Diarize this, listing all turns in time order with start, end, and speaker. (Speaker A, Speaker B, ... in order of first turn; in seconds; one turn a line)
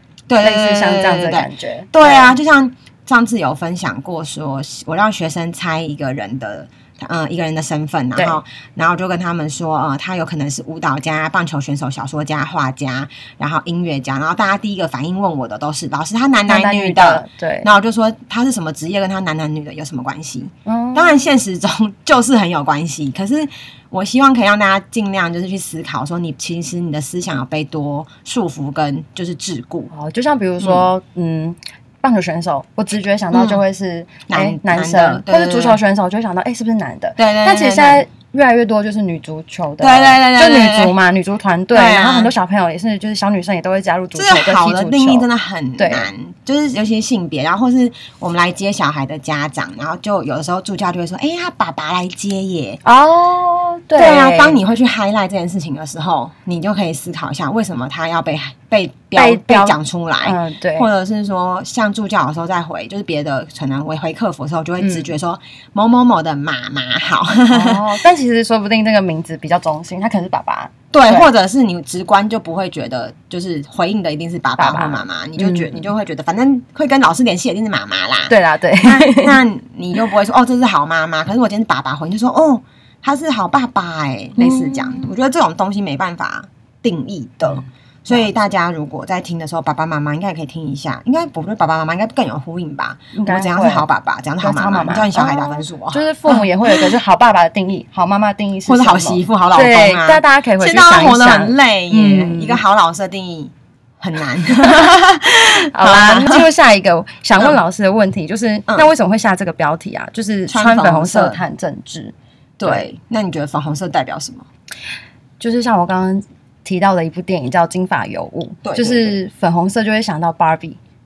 Speaker A: 0.3-29.9
Speaker B: 0.4-2.4
Speaker B: 16.5-17.7
Speaker B: 20.7-21.2
Speaker B: 29.9-45.3
Speaker A: 30.6-30.9
Speaker A: 33.3-33.6
Speaker A: 34.3-35.8
Speaker A: 37.2-38.0
Speaker A: 39.8-40.9
Speaker A: 41.7-42.3
Speaker A: 44.1-52.8
Speaker B: 45.8-46.1
Speaker B: 52.8-54.6
Speaker A: 54.0-67.8
Speaker B: 59.2-60.9
Speaker B: 64.8-65.1
Speaker B: 67.5-71.3
Speaker A: 70.9-96.9
Speaker B: 74.6-75.9
Speaker B: 78.3-79.4
Speaker B: 84.4-85.1
Speaker B: 93.2-93.9
Speaker B: 94.4-102.6
Speaker A: 98.7-106.5
Speaker B: 105.6-112.9
Speaker A: 110.5-111.4
Speaker A: 112.6-114.5
Speaker B: 115.4-120.8
Speaker A: 118.6-119.2